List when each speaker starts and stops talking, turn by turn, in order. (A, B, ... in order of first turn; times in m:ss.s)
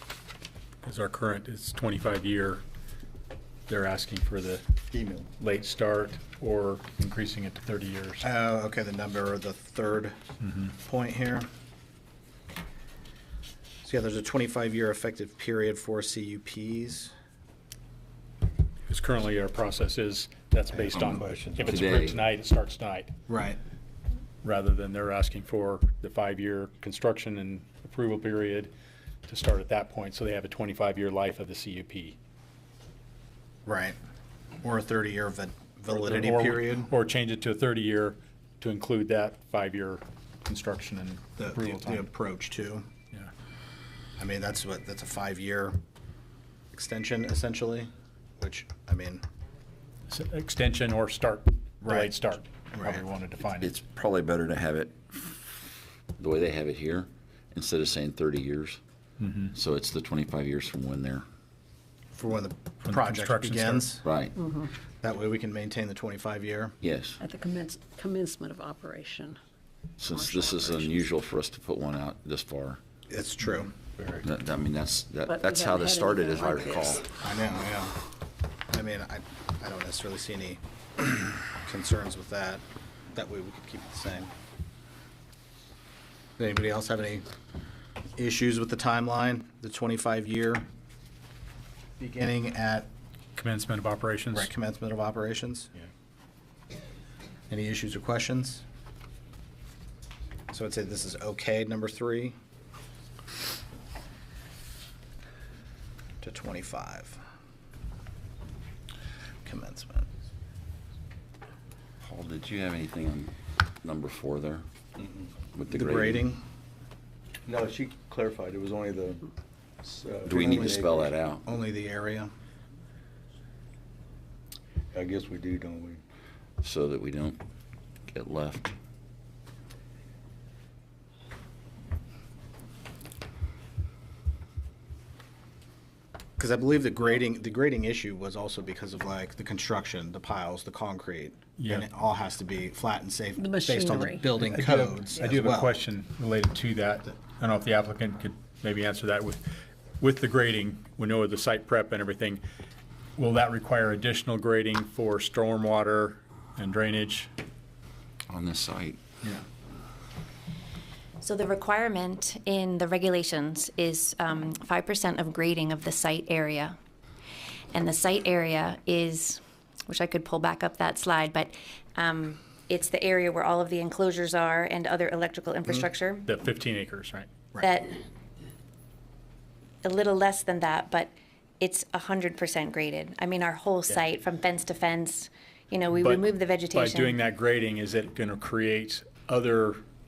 0:00.8-0:02.6 A
0:03.7-0:04.6 A
0:04.9-0:05.2 B
0:05.4-0:08.2 A
0:08.2-0:10.2 C
0:10.7-0:11.5 C
0:13.8-0:17.1 C
0:18.9-0:23.1 A
0:21.0-0:22.0 B
0:21.6-0:22.1 D
0:23.3-0:23.6 C
0:24.4-0:28.7 A
0:29.3-0:32.2 A
0:33.6-0:34.0 C
0:34.6-0:36.9 C
0:35.9-0:42.1 A
0:41.4-0:42.9 C
0:44.2-0:45.8 C
0:46.7-0:49.2 C
0:50.1-0:53.7 A
0:51.8-0:52.1 C
0:52.7-0:53.0 C
0:53.6-0:58.8 D
0:59.2-0:59.5 A
0:59.5-1:01.2 D
1:02.1-1:04.0 C
1:02.8-1:03.9 A
1:04.0-1:04.4 D
1:04.4-1:04.7 E
1:05.0-1:06.7 C
1:06.8-1:07.2 D
1:07.2-1:09.4 E
1:10.0-1:12.8 D
1:10.0-1:11.1 E
1:13.1-1:13.7 C
1:14.2-1:17.0 D
1:15.2-1:17.0 E
1:17.2-1:18.0 C
1:18.7-1:24.3 C
1:26.4-1:27.2 C
1:28.2-1:30.6 C
1:32.0-1:32.9 C
1:33.4-1:34.5 A
1:34.3-1:35.7 C
1:37.5-1:38.6 C
1:40.5-1:42.3 C
1:46.2-1:47.2 C
1:49.4-1:50.1 C
1:52.0-1:54.6 D
1:55.0-1:55.3 B
1:55.5-1:56.2 D
1:55.7-1:56.4 C
1:57.5-1:59.2 B
1:59.8-2:01.1 B
2:00.2-2:01.4 D
2:00.4-2:00.7 C
2:01.4-2:02.3 C
2:04.9-2:06.0 B
2:06.6-2:07.4 D
2:08.1-2:08.7 D
2:16.4-2:25.7 C
2:21.6-2:21.8 A
2:23.4-2:24.3 E
2:24.4-2:32.4 A
2:33.2-2:37.3 A
2:38.3-2:39.0 D
2:41.2-2:46.8 F
2:47.7-2:56.3 F
2:56.2-2:57.3 A
2:57.6-2:58.0 F
2:59.8-3:07.1 F
3:06.0-3:09.8 A